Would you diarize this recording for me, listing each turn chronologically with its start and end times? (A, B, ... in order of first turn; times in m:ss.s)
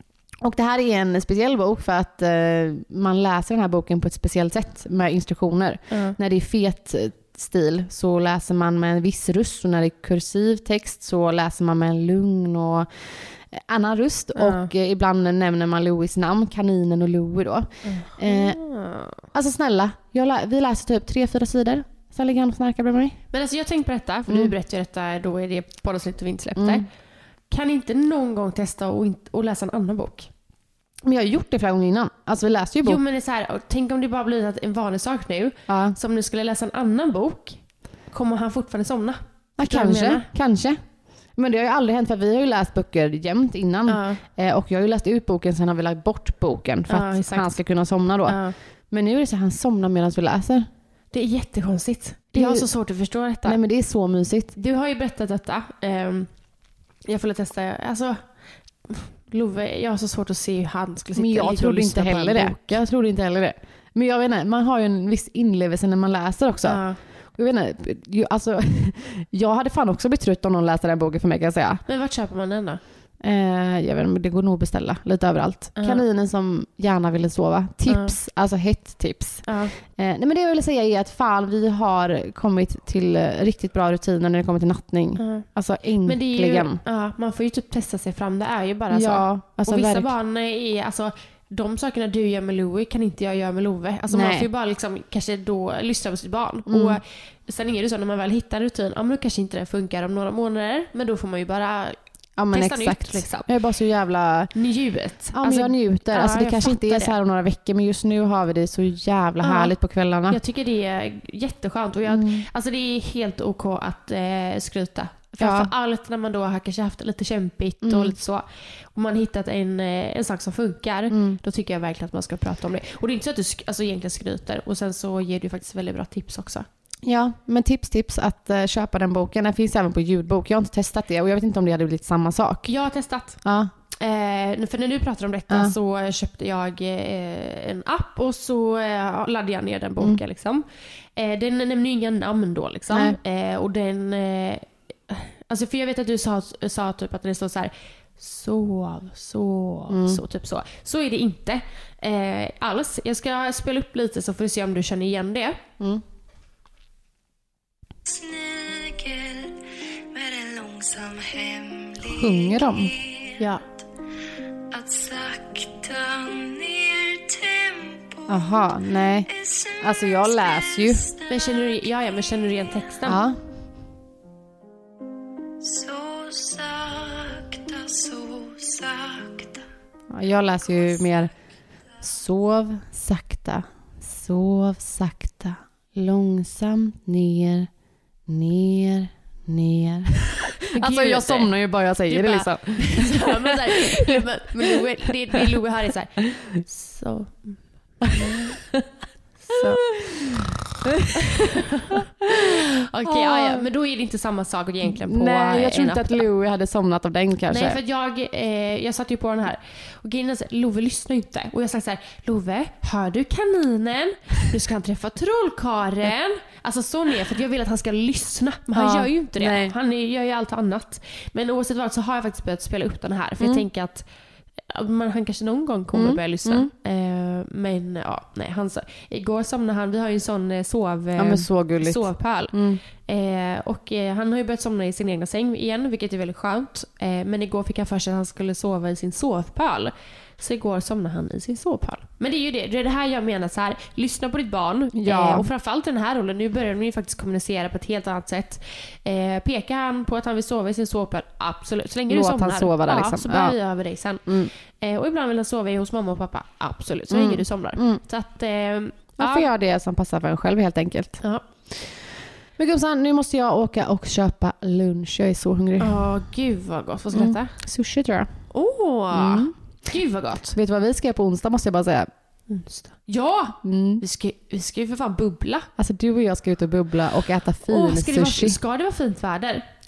0:00.4-0:18.6 A
0:05.9-0:06.2 B
0:14.3-0:14.7 B
0:17.8-0:19.2 B
0:19.3-0:23.2 A
0:23.3-0:26.8 B
0:24.3-0:24.5 A
0:26.6-0:26.8 A
0:27.5-0:30.3 B
0:31.0-0:33.0 A
0:32.8-0:40.3 B
0:35.7-0:36.0 A
0:39.6-0:40.8 A
0:41.3-0:50.7 A
0:43.9-0:44.2 B
0:46.9-0:47.5 B
0:48.2-0:48.5 B
0:51.1-0:53.6 B
0:52.3-0:52.7 A
0:53.4-0:54.5 A
0:54.6-0:56.3 B
0:57.0-0:58.3 B
0:58.9-1:02.8 B
1:01.2-1:11.8 A
1:06.6-1:07.0 B
1:11.9-1:12.8 B
1:13.2-1:26.8 A
1:15.8-1:16.0 B
1:17.9-1:18.1 B
1:19.4-1:19.7 B
1:25.2-1:25.4 B
1:26.0-1:42.0 B
1:28.9-1:30.1 A
1:34.1-1:34.5 A
1:36.7-1:37.0 A
1:42.4-1:44.5 A
1:42.5-1:43.5 B
1:44.5-1:47.1 B
1:45.3-1:50.4 A
1:49.4-1:49.7 B
1:50.3-2:06.7 B
1:52.1-1:52.4 A
1:55.4-1:55.7 A
1:57.8-1:58.1 A
2:01.1-2:01.4 A
2:07.0-2:12.7 A
2:12.6-2:13.4 B
2:13.4-2:13.7 A
2:14.0-2:20.6 B
2:15.5-2:15.7 A
2:21.2-2:35.6 B
2:22.9-2:23.2 A
2:29.9-2:30.2 A
2:38.0-2:39.6 C
2:40.1-2:43.4 C
2:42.0-2:42.9 A
2:44.7-2:48.5 C
2:48.3-2:49.3 A
2:49.3-2:51.7 C
2:49.8-2:51.0 A
2:51.3-2:53.2 B
2:53.0-2:53.4 A
2:55.6-2:59.6 C
3:00.1-3:01.3 A
3:02.0-3:07.7 A
3:08.3-3:13.5 A
3:10.7-3:11.5 B
3:12.1-3:18.4 B
3:18.2-3:18.5 A
3:19.4-3:19.8 B
3:22.8-3:26.2 B
3:23.0-3:23.6 A
3:24.8-3:27.8 A
3:27.5-3:44.1 B
3:38.7-3:39.7 A
3:43.4-3:43.6 A
3:44.7-4:19.5 B
3:45.9-3:46.7 A
3:51.2-3:52.8 A
4:04.9-4:05.5 A
4:12.1-4:13.6 A
4:14.2-4:14.5 A
4:17.1-4:18.0 A
4:19.2-4:22.0 A
4:22.6-4:26.1 A
4:25.8-4:27.5 B
4:27.1-4:28.3 A
4:28.5-4:30.6 B
4:29.1-4:29.5 A
4:30.5-4:32.1 A
4:32.5-4:35.7 B
4:33.6-4:34.0 A
4:35.8-4:38.6 A
4:37.7-4:39.6 B